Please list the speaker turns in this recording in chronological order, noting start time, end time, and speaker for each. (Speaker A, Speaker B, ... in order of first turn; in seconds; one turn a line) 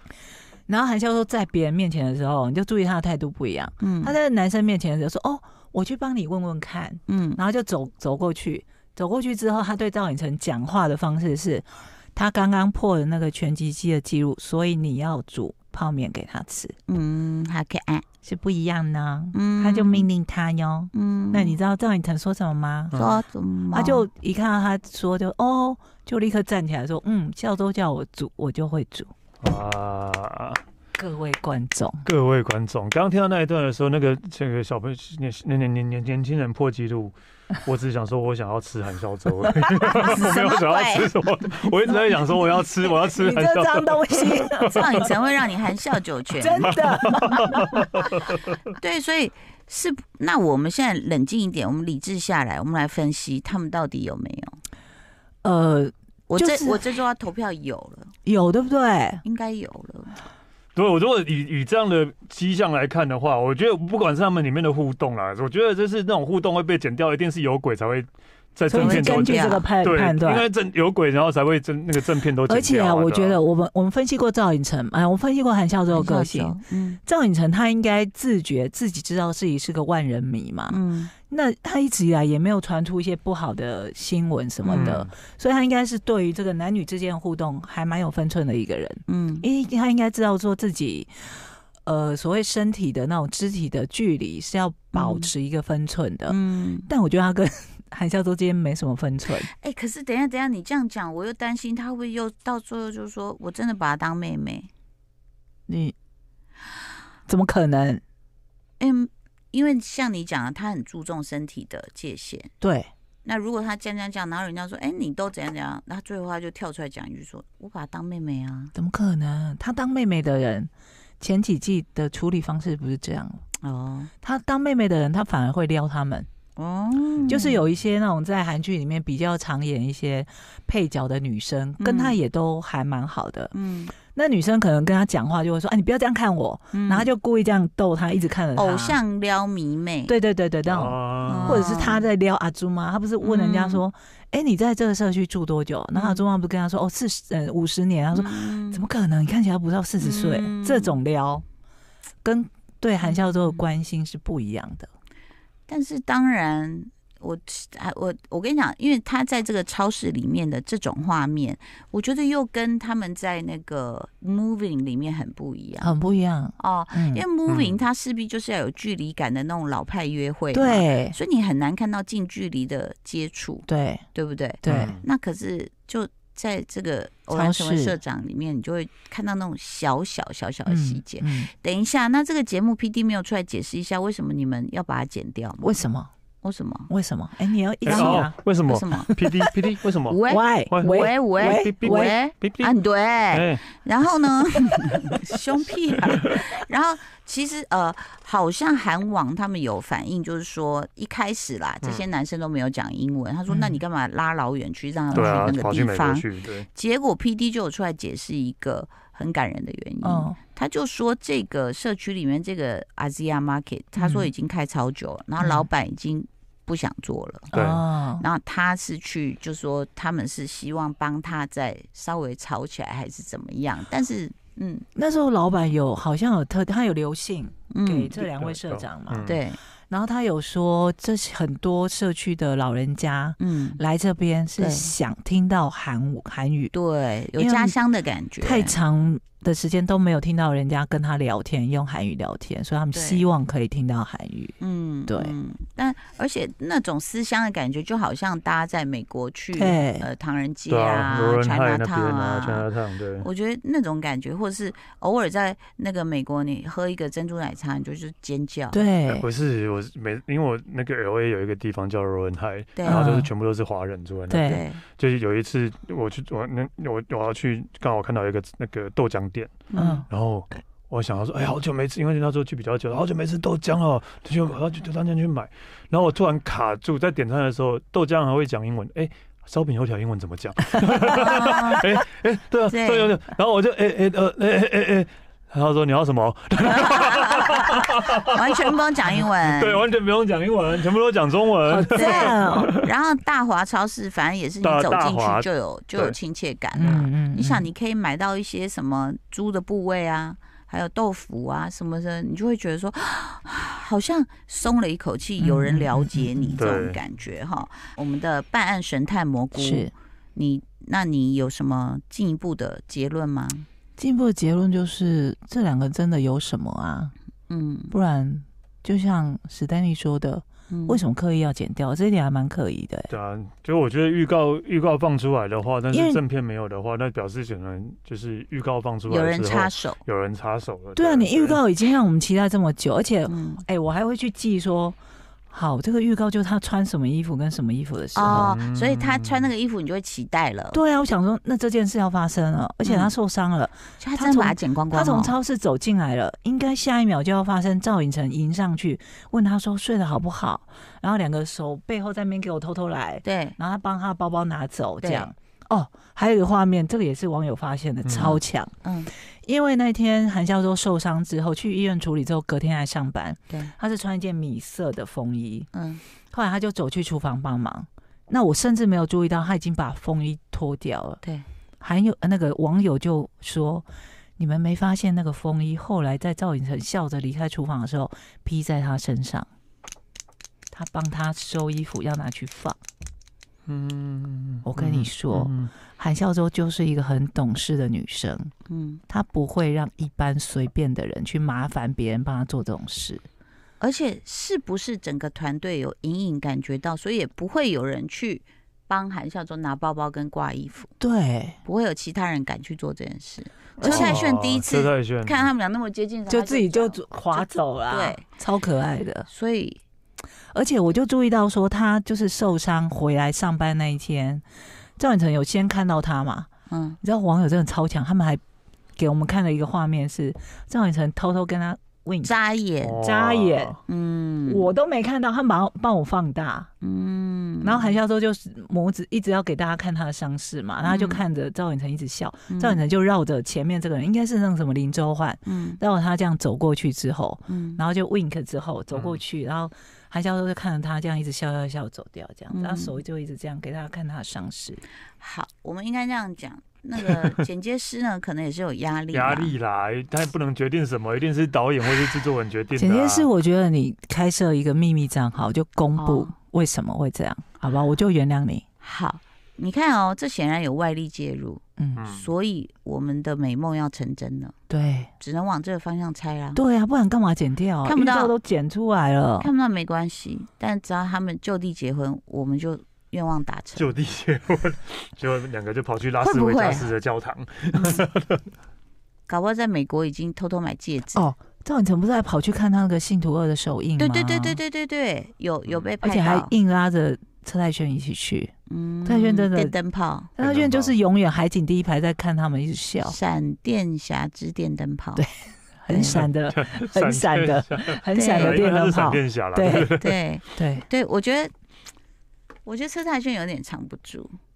Speaker A: 0.7-16.7
Speaker B: 3.8-4.2
Speaker B: 7.1-7.4
Speaker B: 16.9-18.0
Speaker A: 18.2-23.0
Speaker B: 19.3-20.1
Speaker B: 20.9-21.6
Speaker C: 22.9-23.2
Speaker B: 22.9-24.1
Speaker A: 23.7-29.1
Speaker C: 29.4-30.6
Speaker A: 30.9-32.0
Speaker C: 32.0-45.1
Speaker A: 39.8-40.6
Speaker B: 40.0-41.1
Speaker A: 41.9-45.1
Speaker B: 44.7-46.8
Speaker A: 46.4-47.9
Speaker C: 46.6-48.2
Speaker B: 48.8-54.6
Speaker A: 55.4-56.8
Speaker B: 56.3-58.1
Speaker A: 58.2-59.2
Speaker B: 59.2-60.2
Speaker C: 60.7-73.4
Speaker A: 68.7-70.5
Speaker B: 68.7-69.7
Speaker A: 72.4-80.8
Speaker B: 75.9-77.0
Speaker B: 80.7-81.1
Speaker A: 81.3-99.5
Speaker C: 84.6-85.1
Speaker B: 89.1-89.5
Speaker B: 94.9-95.3
Speaker B: 96.3-96.9
Speaker B: 99.5-104.7
Speaker A: 105.7-105.9
Speaker A: 107.3-108.0
Speaker B: 108.8-112.5
Speaker A: 112.6-112.9
Speaker B: 113.2-118.7
Speaker A: 118.7-123.4
Speaker B: 123.6-124.1
Speaker A: 124.2-126.3
Speaker B: 126.6-127.6
Speaker A: 127.3-133.5
Speaker B: 131.8-132.2
Speaker B: 133.5-133.9
Speaker A: 134.1-139.0
Speaker B: 136.7-137.1
Speaker B: 138.5-140.1
Speaker A: 140.1-151.4
Speaker C: 140.7-141.8
Speaker B: 141.3-142.0
Speaker B: 143.2-143.8
Speaker B: 145.9-146.2
Speaker B: 148.1-148.8
Speaker B: 150.0-151.0
Speaker A: 152.2-154.9
Speaker B: 153.0-153.6
Speaker B: 155.7-165.9
Speaker A: 165.8-167.2
Speaker B: 166.6-185.7
Speaker C: 167.5-167.8
Speaker A: 170.5-171.2
Speaker A: 173.7-174.0
Speaker A: 174.6-175.0
Speaker C: 174.7-175.0
Speaker A: 177.3-178.0
Speaker A: 180.7-181.5
Speaker A: 185.6-186.1
Speaker B: 186.4-186.9
Speaker A: 186.9-188.3
Speaker C: 187.8-192.7
Speaker B: 187.9-189.1
Speaker A: 189.2-189.5
Speaker B: 190.1-217.5
Speaker A: 190.3-192.1
Speaker C: 193.3-193.7
Speaker A: 203.5-203.8
Speaker C: 205.1-206.7
Speaker A: 210.0-210.4
Speaker A: 213.9-214.3
Speaker A: 215.4-215.7
Speaker C: 217.5-217.8
Speaker A: 217.5-218.2
Speaker B: 218.2-224.8
Speaker A: 224.9-229.3
Speaker B: 227.7-228.1
Speaker C: 228.2-229.4
Speaker B: 229.2-229.6
Speaker A: 229.9-236.7
Speaker B: 233.4-233.8
Speaker B: 234.6-234.9
Speaker B: 236.7-238.8
Speaker A: 237.4-237.8
Speaker A: 238.4-245.3
Speaker B: 242.9-243.2
Speaker B: 244.6-252.7
Speaker A: 249.5-250.1
Speaker C: 250.7-253.3
Speaker B: 253.2-258.8
Speaker A: 258.7-259.2
Speaker C: 259.1-292.9
Speaker B: 262.8-263.1
Speaker A: 262.9-263.3
Speaker A: 264.3-264.6
Speaker B: 264.4-264.8
Speaker B: 269.7-270.0
Speaker A: 269.8-270.1
Speaker B: 281.1-281.8
Speaker A: 281.1-281.6
Speaker B: 282.7-283.1
Speaker B: 286.6-289.8
Speaker A: 291.7-292.7
Speaker B: 291.9-313.7
Speaker C: 294.6-296.1
Speaker C: 296.8-297.1
Speaker A: 296.8-297.7
Speaker A: 305.4-306.6
Speaker C: 306.6-307.0
Speaker A: 309.6-309.9
Speaker A: 314.0-317.1
Speaker B: 317.5-317.9
Speaker A: 317.9-323.1
Speaker B: 320.7-321.0
Speaker C: 323.1-331.6
Speaker A: 325.9-326.2
Speaker B: 329.1-330.0
Speaker A: 330.9-335.0
Speaker B: 333.3-333.6
Speaker A: 335.5-338.6
Speaker B: 338.1-340.8
Speaker C: 338.3-339.5
Speaker A: 340.7-358.7
Speaker B: 342.8-343.1
Speaker B: 344.0-345.4
Speaker B: 353.2-353.6
Speaker B: 355.0-355.3
Speaker C: 358.0-358.4
Speaker B: 358.2-359.1
Speaker A: 359.4-365.7
Speaker B: 365.7-366.0
Speaker A: 366.3-371.2
Speaker A: 371.8-373.8
Speaker A: 374.4-379.5
Speaker A: 380.7-382.8
Speaker C: 383.7-385.7
Speaker A: 384.6-388.5
Speaker B: 388.7-389.0
Speaker A: 389.1-393.2
Speaker B: 393.8-400.9
Speaker A: 401.0-401.6
Speaker B: 401.6-408.2
Speaker C: 403.8-405.5
Speaker A: 403.8-404.2
Speaker A: 406.3-409.3
Speaker B: 409.3-409.8
Speaker A: 410.5-414.4
Speaker A: 415.0-416.5
Speaker B: 416.7-417.0
Speaker A: 417.0-418.4
Speaker A: 419.0-422.3
Speaker B: 422.2-423.0
Speaker C: 422.8-423.8
Speaker A: 423.0-423.8
Speaker B: 423.9-424.7
Speaker A: 424.4-426.7
Speaker B: 426.8-427.9
Speaker A: 427.6-444.8
Speaker B: 430.8-431.2
Speaker B: 432.5-432.8
Speaker B: 435.4-435.8
Speaker B: 437.5-437.8
Speaker C: 438.9-439.2
Speaker B: 442.5-443.0
Speaker B: 445.2-449.5
Speaker C: 449.1-453.3
Speaker A: 452.8-458.6
Speaker B: 455.9-456.3
Speaker B: 458.8-464.5
Speaker A: 461.8-462.1
Speaker C: 462.0-462.3
Speaker A: 464.7-465.1
Speaker B: 465.2-466.6
Speaker A: 466.5-469.5
Speaker B: 467.8-468.3
Speaker B: 469.4-473.9
Speaker C: 473.8-478.4
Speaker B: 476.2-476.9
Speaker B: 477.7-478.0
Speaker B: 479.3-481.3
Speaker A: 481.1-484.6
Speaker B: 484.0-486.5
Speaker A: 486.0-488.5
Speaker B: 488.7-490.3
Speaker A: 489.1-489.7
Speaker A: 490.4-493.1
Speaker C: 490.4-490.9
Speaker B: 493.0-495.2
Speaker A: 495.8-499.9
Speaker B: 495.9-496.2
Speaker C: 496.0-500.1
Speaker B: 498.1-498.6
Speaker B: 499.7-501.5
Speaker A: 500.6-500.8
Speaker B: 502.6-504.4